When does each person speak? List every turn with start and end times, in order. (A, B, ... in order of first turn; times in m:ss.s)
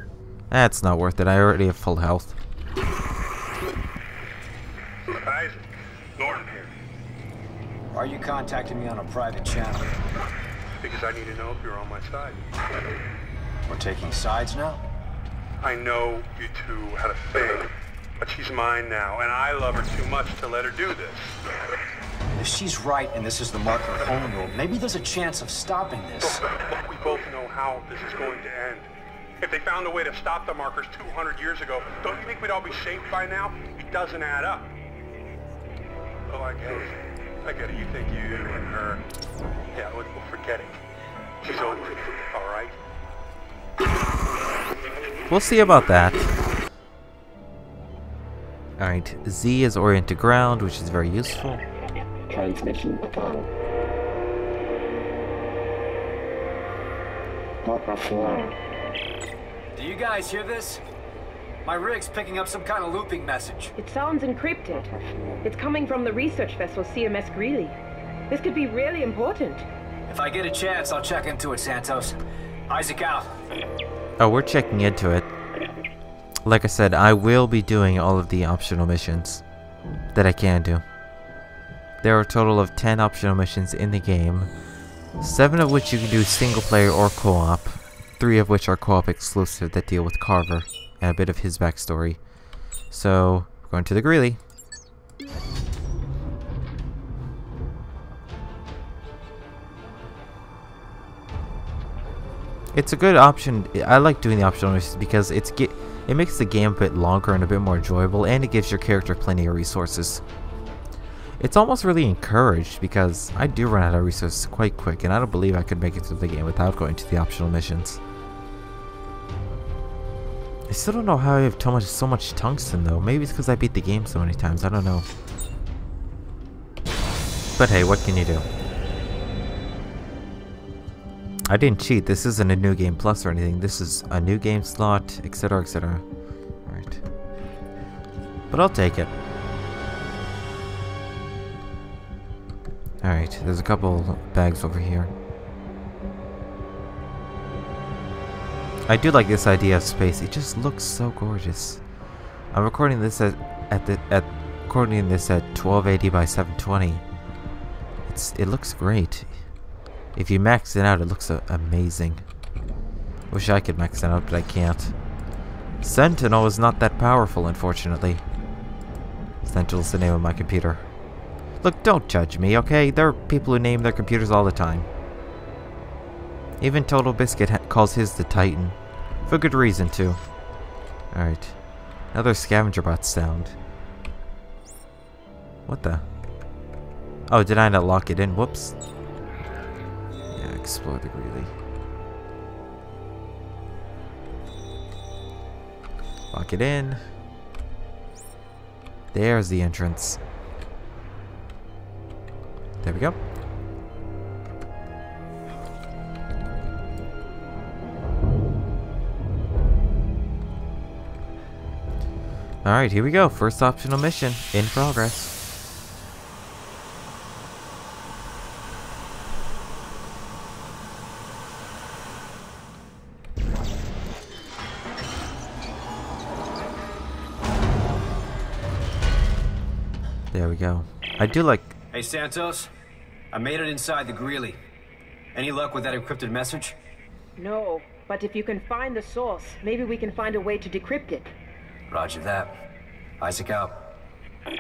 0:00.5-0:02.4 A
0:05.1-0:06.7 B
0:07.9-0:10.0 C
0:10.8-0:12.4 B
0:13.7-0:14.8 C
0:15.6-0:21.4 B
0:22.4-0:26.4 C
0:26.2-0:28.9 B
0:29.4-0:34.7 B
0:36.3-0:39.0 B
0:39.7-0:40.8 B
0:41.4-0:42.7 B
0:45.3-0:46.3 A
0:48.8-0:51.6 A
0:52.3-0:53.5 D
0:57.6-0:58.5 D
0:59.8-1:00.8 C
1:01.6-1:03.7 C
1:03.8-1:07.8 E
1:08.3-1:09.7 E
1:10.1-1:12.2 C
1:12.7-1:13.3 C
1:14.2-1:15.3 A
1:16.4-1:19.4 A
1:20.1-1:20.8 A
1:22.0-1:24.5 A
1:25.2-1:32.2 A
1:32.9-1:34.4 A
1:42.7-1:50.2 A
1:51.4-1:58.0 A
2:00.7-2:05.1 A
2:07.6-2:08.4 A
2:11.5-2:16.0 A
2:16.6-2:17.0 A
2:18.5-2:19.1 A
2:23.0-2:25.1 A
2:28.9-2:31.8 A
2:32.5-2:37.0 A
2:38.1-2:39.3 A
2:40.2-2:42.2 A
2:43.3-2:44.9 A
2:45.8-2:48.2 A
2:49.4-2:50.8 A
2:51.6-2:54.9 A
2:56.6-2:58.8 A
2:59.3-3:00.2 A
3:01.1-3:01.6 A
3:02.1-3:03.6 A
3:05.7-3:06.0 A
3:07.3-3:08.7 A
3:10.4-3:11.5 A
3:16.3-3:17.0 A
3:19.1-3:20.2 A
3:22.8-3:23.2 A
3:32.6-3:35.3 A
3:50.3-3:51.7 A
3:51.9-3:52.7 C
3:53.3-3:54.6 C
3:55.3-3:56.8 C
3:57.4-4:01.3 E
4:01.9-4:02.6 C
4:03.2-4:03.8 C